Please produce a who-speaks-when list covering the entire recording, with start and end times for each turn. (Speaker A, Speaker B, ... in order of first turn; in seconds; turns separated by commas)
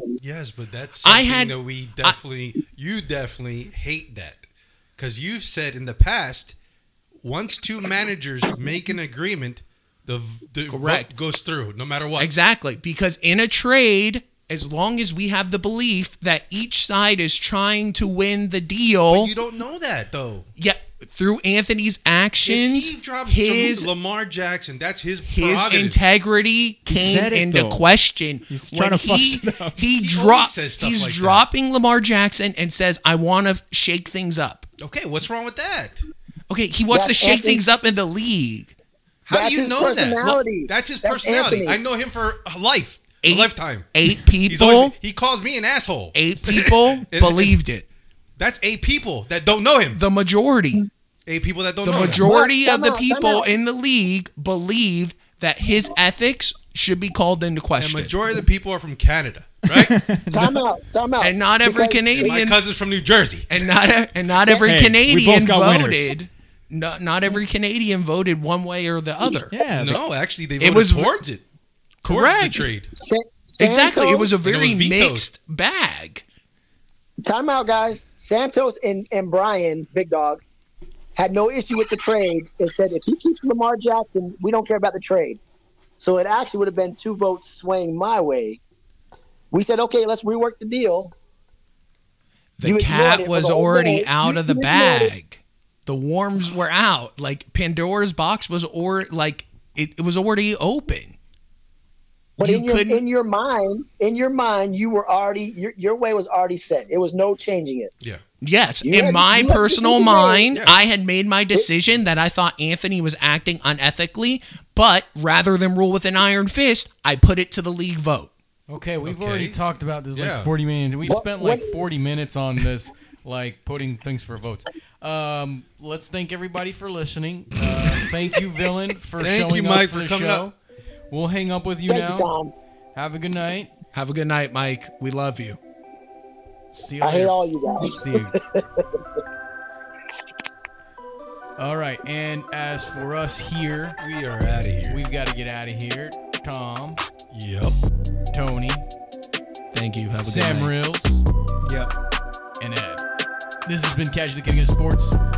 Speaker A: 0.2-4.5, Speaker B: 1.0-2.2, Speaker A: 5.0-6.6, Speaker A: 7.2-12.3, Speaker B: 10.7-11.1, Speaker B: 12.2-19.3, Speaker A: 19.1-20.5, Speaker B: 20.6-23.9, Speaker A: 22.4-26.0, Speaker B: 25.2-34.7, Speaker C: 26.9-27.9, Speaker C: 28.5-29.8, Speaker A: 29.9-31.4, Speaker A: 34.8-36.1, Speaker B: 36.5-38.7, Speaker D: 36.9-37.6, Speaker A: 39.3-47.6, Speaker D: 39.3-41.8, Speaker B: 43.2-44.9, Speaker B: 46.1-47.9, Speaker A: 48.4-50.0, Speaker B: 49.9-50.9, Speaker A: 51.3-52.2, Speaker B: 51.8-58.2, Speaker D: 51.9-53.5, Speaker A: 57.8-60.0, Speaker C: 59.7-60.6, Speaker D: 60.3-62.4, Speaker B: 61.2-62.6, Speaker A: 62.2-63.7, Speaker B: 63.5-69.5, Speaker C: 64.4-66.1, Speaker C: 69.5-70.0, Speaker A: 69.8-71.4, Speaker B: 70.6-71.2, Speaker A: 72.0-72.9, Speaker B: 72.1-72.6, Speaker D: 73.0-74.3, Speaker B: 73.6-76.2, Speaker A: 74.4-75.2, Speaker D: 77.2-80.4, Speaker D: 81.2-85.4, Speaker D: 86.0-88.6, Speaker D: 89.5-91.1, Speaker B: 92.6-101.2, Speaker D: 92.6-95.1, Speaker D: 102.4-107.9, Speaker B: 102.4-103.0, Speaker B: 108.4-118.3, Speaker D: 108.8-110.6, Speaker A: 110.5-110.8, Speaker E: 118.7-130.6, Speaker A: 119.0-119.6, Speaker A: 120.2-120.5, Speaker D: 121.0-121.7, Speaker A: 129.2-130.5, Speaker E: 131.1-132.3, Speaker D: 131.9-132.5, Speaker E: 132.9-133.7, Speaker B: 133.9-135.6, Speaker E: 136.7-138.3, Speaker D: 137.0-139.0, Speaker E: 141.6-144.0, Speaker A: 144.0-145.0, Speaker E: 144.9-147.0, Speaker A: 147.3-147.8, Speaker E: 148.3-148.8, Speaker B: 149.7-150.7, Speaker E: 150.1-151.2, Speaker C: 151.7-151.9, Speaker E: 152.6-153.0, Speaker E: 153.7-155.2